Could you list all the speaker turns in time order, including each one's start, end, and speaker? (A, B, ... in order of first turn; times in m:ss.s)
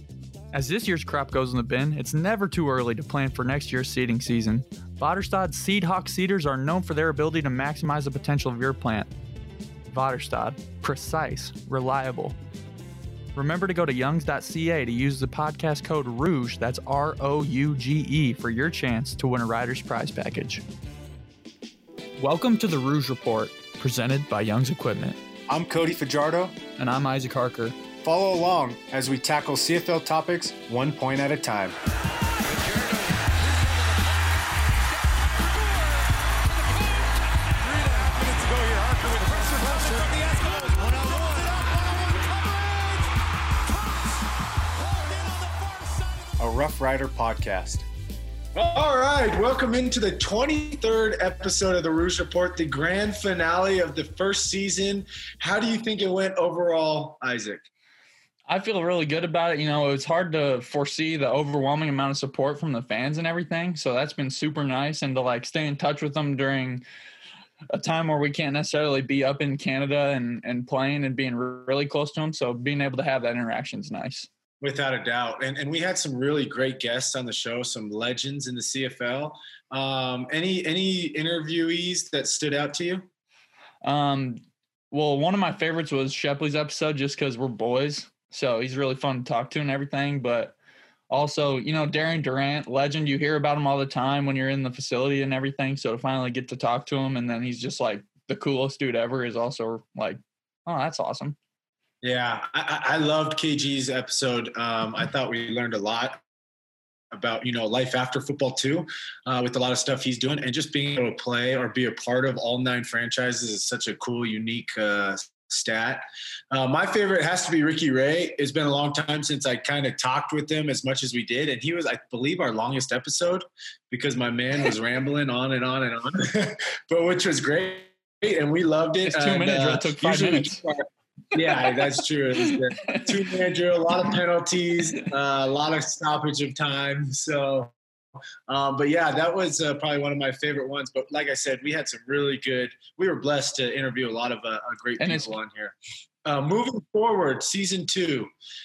0:00.5-0:09.1 A
0:09.9-0:12.4 A
0:13.3-0:20.6 A
0:22.2-0:25.2 A
0:25.5-0:26.6 B
0:26.8-0:27.7 A
0:28.0-0:31.8 B
0:37.6-0:42.9 B
0:45.2-0:45.5 B
0:46.4-0:47.8 B
0:48.5-0:57.7 B
0:58.5-1:06.8 A
1:07.7-1:14.3 A
1:14.6-1:23.1 B
1:23.8-1:30.6 A
1:31.1-1:41.4 A
1:42.0-1:46.2 B
1:47.1-2:17.7 B
2:09.0-2:10.6 A
2:11.4-2:11.9 A
2:12.4-2:13.1 A
2:18.5-2:28.3 B
2:25.0-2:25.3 A